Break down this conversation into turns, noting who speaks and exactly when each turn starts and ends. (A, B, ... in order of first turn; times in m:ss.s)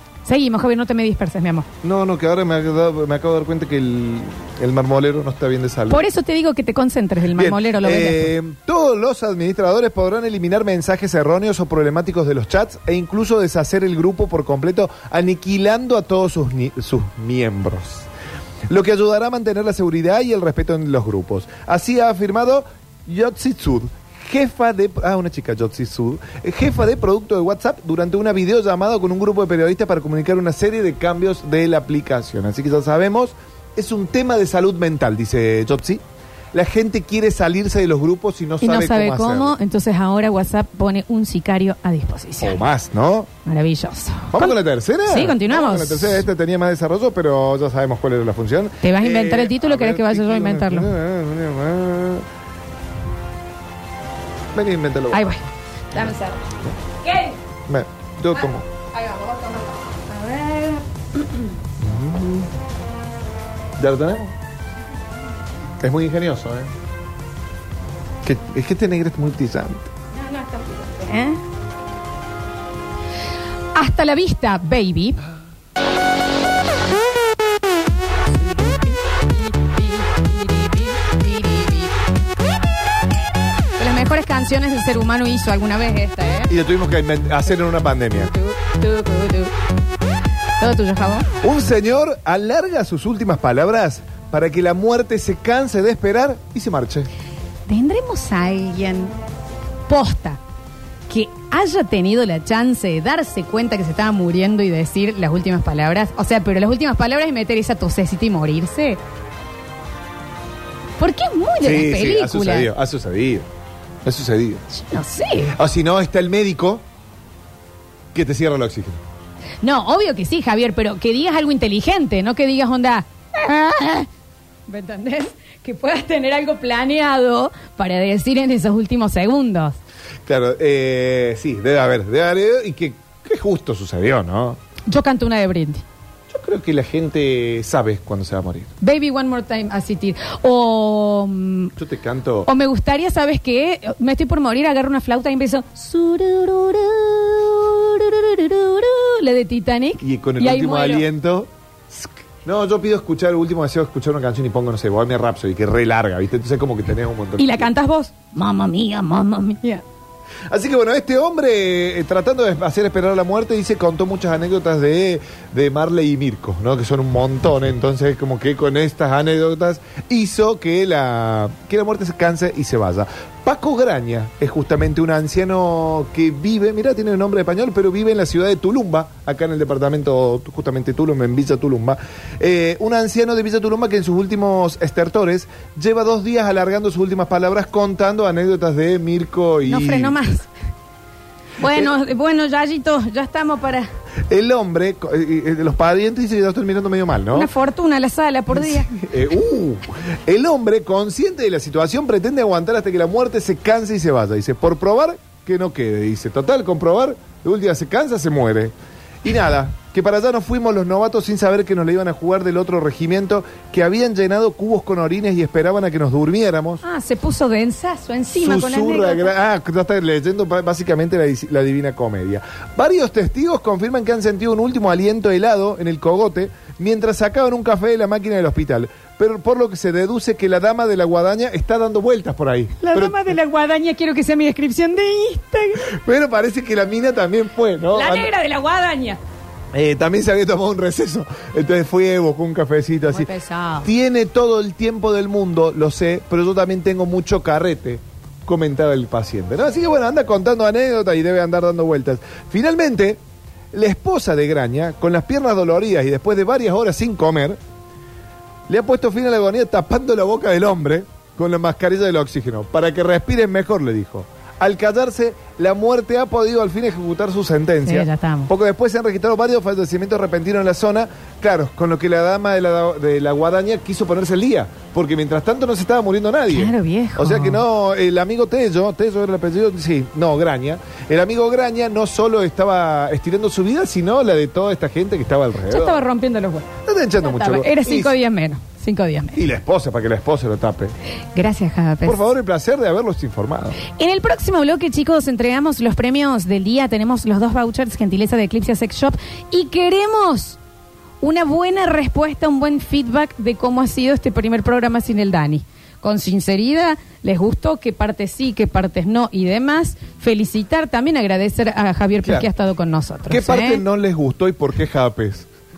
0:00.2-0:01.7 A
0:01.8-0:06.1 B
0:05.9-0:08.3 A
0:07.3-0:18.1 B
0:18.7-0:36.0 B
0:36.5-0:39.6 B
0:38.6-0:42.6 A
0:42.4-0:43.3 B
0:43.4-0:44.5 A
0:44.3-0:52.3 B
0:45.1-0:46.2 A
0:48.8-0:50.9 A
0:54.6-0:55.3 B
0:55.1-0:56.5 A
0:57.0-0:57.4 A
0:57.7-0:58.6 B
0:58.4-1:01.5 A
1:01.8-1:02.5 B
1:03.8-1:04.3 B
1:05.8-1:06.7 B
1:08.2-1:09.9 B
1:10.1-1:11.4 A
1:13.7-1:15.2 A
1:18.4-1:21.9 A
1:23.8-1:26.5 A
1:26.5-1:28.3 B
1:28.2-1:29.5 A
1:30.6-1:31.3 A
1:31.4-1:37.1 B
1:37.7-1:39.1 A
1:39.9-1:40.4 A
1:41.1-1:49.0 A
1:51.0-1:52.7 A
1:51.6-1:53.5 B
1:54.0-1:54.6 B
1:54.7-1:55.5 A
1:55.5-1:56.8 B
1:58.1-1:59.0 B
1:59.6-2:04.1 A
2:04.7-2:09.8 A
2:10.3-2:14.6 B
2:14.9-2:15.8 A
2:16.3-2:18.7 B
2:18.8-2:21.7 A
2:21.8-2:22.5 B
2:22.5-2:31.1 A
2:30.0-2:37.7 B
2:37.4-2:39.8 A
2:40.5-3:10.2 B
3:09.6-3:10.5 A
3:11.6-3:13.9 A
3:11.6-3:11.9 B
3:14.3-3:17.5 B
3:17.3-3:18.9 A
3:18.5-3:28.7 B
3:29.2-3:36.8 B
3:36.8-3:39.3 A
3:38.4-3:53.2 B
3:52.8-3:55.9 A
3:55.8-3:58.3 B
3:57.9-3:59.2 A
3:59.7-4:03.3 B
4:03.1-4:03.9 A
4:03.8-4:13.2 B
4:13.7-4:17.6 B
4:18.7-4:46.0 B
4:27.8-4:28.5 A
4:36.5-4:37.6 A
4:45.7-4:46.7 A
4:46.9-4:48.2 B
4:47.2-4:49.4 A
4:49.4-4:50.9 B
4:51.3-4:52.2 A
4:52.0-4:53.8 B
4:53.9-5:00.6 A
5:01.2-5:13.8 A
5:13.3-5:15.5 B